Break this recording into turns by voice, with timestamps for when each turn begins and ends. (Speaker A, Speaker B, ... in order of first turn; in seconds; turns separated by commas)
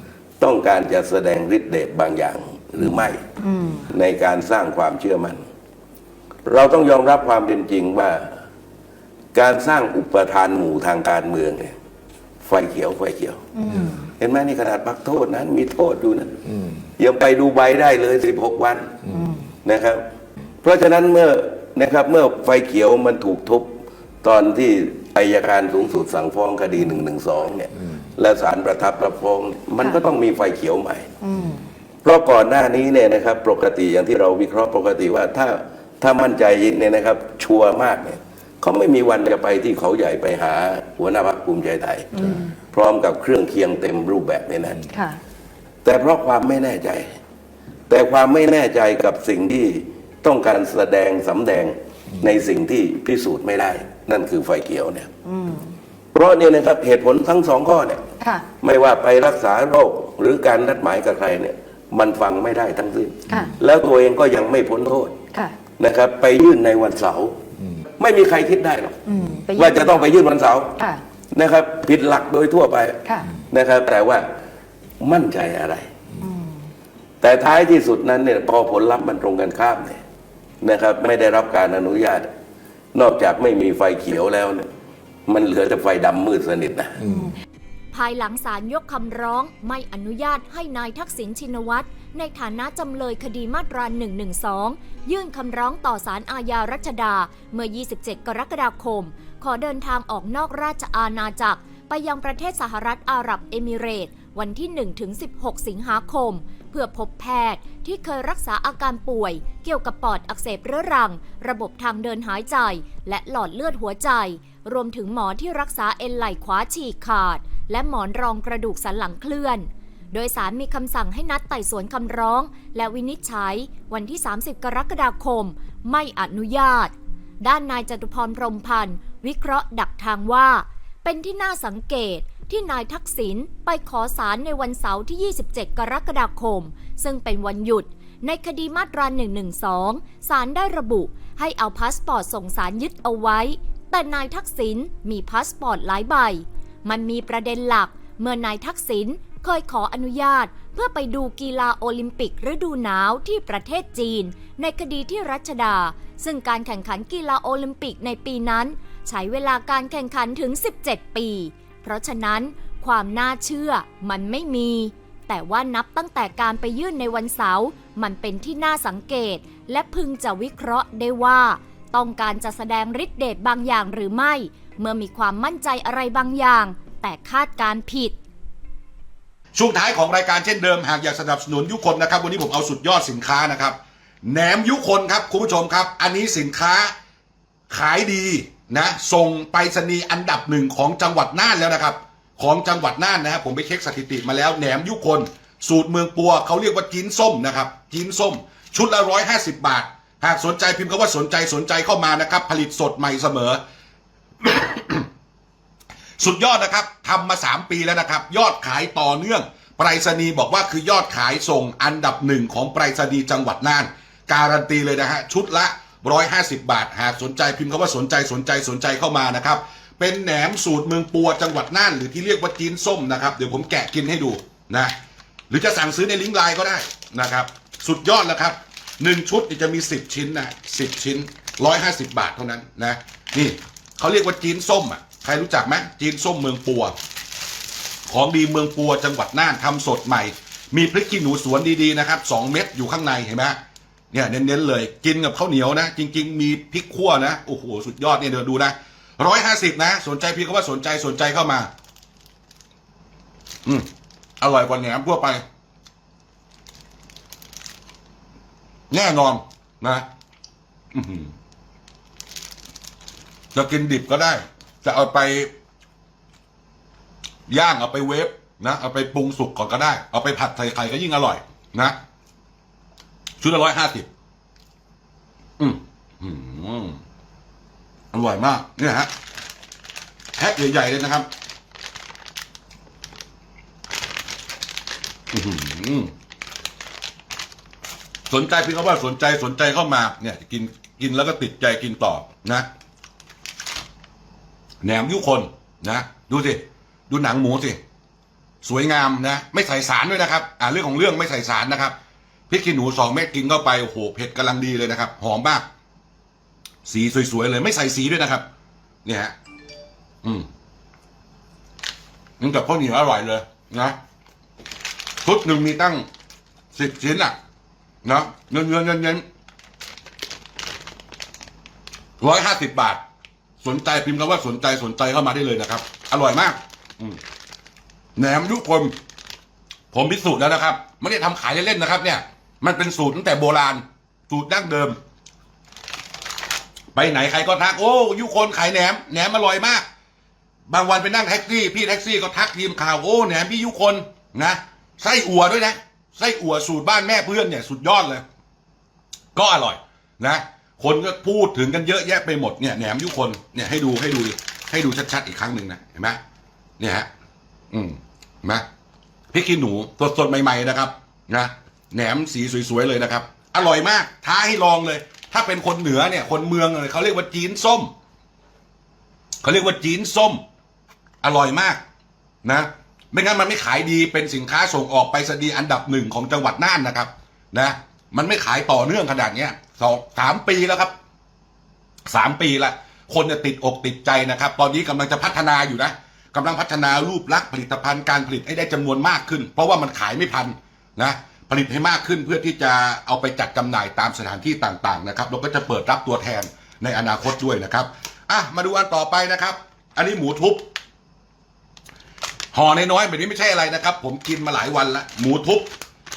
Speaker A: 0.4-3.2, Speaker B: 3.5-3.8, Speaker A: 3.9-5.4, Speaker A: 6.5-8.3, Speaker A: 9.3-11.7, Speaker A: 12.4-13.5, Speaker B: 13.6-14.0, Speaker A: 14.0-16.4, Speaker A: 17.0-20.0, Speaker B: 19.1-19.5, Speaker A: 20.6-31.1, Speaker B: 31.2-31.7, Speaker A: 32.0-44.9, Speaker A: 45.8-47.2, Speaker A: 47.9-55.1, Speaker B: 55.3-55.7, Speaker A: 56.1-58.0, Speaker B: 58.2-58.5, Speaker A: 58.6-67.4, Speaker A: 68.0-74.3, Speaker B: 69.1-69.7, Speaker A: 75.0-75.9, Speaker B: 76.2-76.5, Speaker A: 77.2-80.0, Speaker A: 80.6-82.3, Speaker A: 82.9-84.7, Speaker A: 85.3-87.2, Speaker C: 87.9-178.2, Speaker D: 179.6-186.9, Speaker D: 187.7-203.6, Speaker D: 204.4-205.1, Speaker D: 206.2-224.9, Speaker D: 225.5-236.9, Speaker D: 238.1-243.6, Speaker D: 244.1-251.7, Speaker D: 254.4-255.4, Speaker D: 258.9-260.1, Speaker D: 260.9-261.3, Speaker D: 263.5-265.5, Speaker D: 267.5-272.0, Speaker D: 273.4-274.1, Speaker D: 275.6-277.0, Speaker D: 278.1-279.1, Speaker D: 280.4-281.3, Speaker D: 285.3-286.1, Speaker D: 288.3-292.7, Speaker D: 294.8-297.8, Speaker D: 298.6-301.9, Speaker D: 302.5-305.6, Speaker D: 306.9-308.4, Speaker D: 309.1-309.3, Speaker D: 312.4-314.0, Speaker D: 315.2-316.1, Speaker D: 316.7-317.4, Speaker D: 318.0-319.2, Speaker D: 322.2-323.0, Speaker D: 323.6-327.2, Speaker D: 328.2-328.9, Speaker D: 329.9-335.0, Speaker D: 336.9-339.9, Speaker D: 340.7-348.2, Speaker D: 349.4-356.2, Speaker D: 356.8-357.1, Speaker D: 357.7-358.6, Speaker D: 359.3-367.9, Speaker D: 369.4-370.4, Speaker D: 371.2-371.8, Speaker D: 372.4-380.9, Speaker D: 382.1-400.7, Speaker D: 402.5-405.7